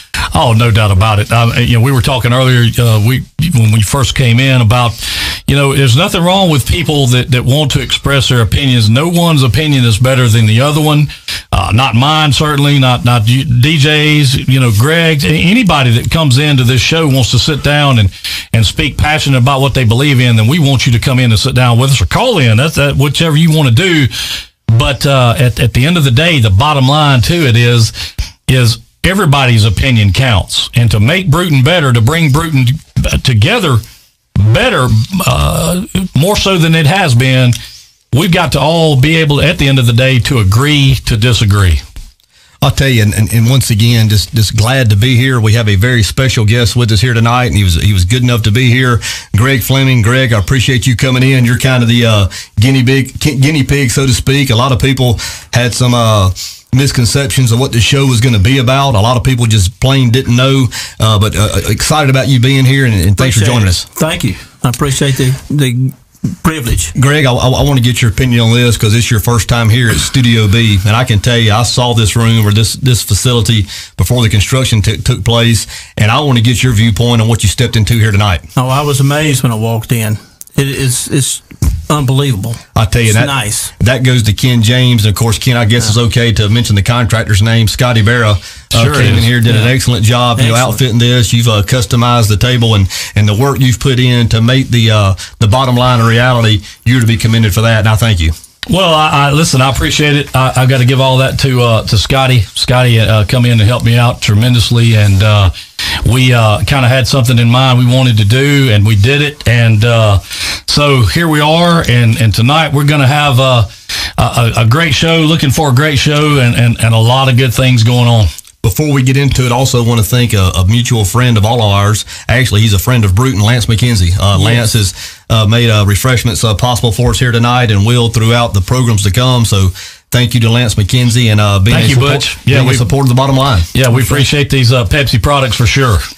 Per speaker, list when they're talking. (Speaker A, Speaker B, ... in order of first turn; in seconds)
Speaker A: 0.3-27.9, 28.5-33.8, 34.4-37.5, 38.1-41.8, 88.7-89.3, 98.7-105.5, 106.0-118.3, 131.7-132.9, 133.7-136.0
Speaker B: 42.6-63.9, 66.9-78.5, 82.7-98.3, 118.6-133.7
Speaker C: 63.2-66.9, 78.5-83.7, 89.4-89.7, 90.3-90.8, 124.4-124.6, 133.9-134.2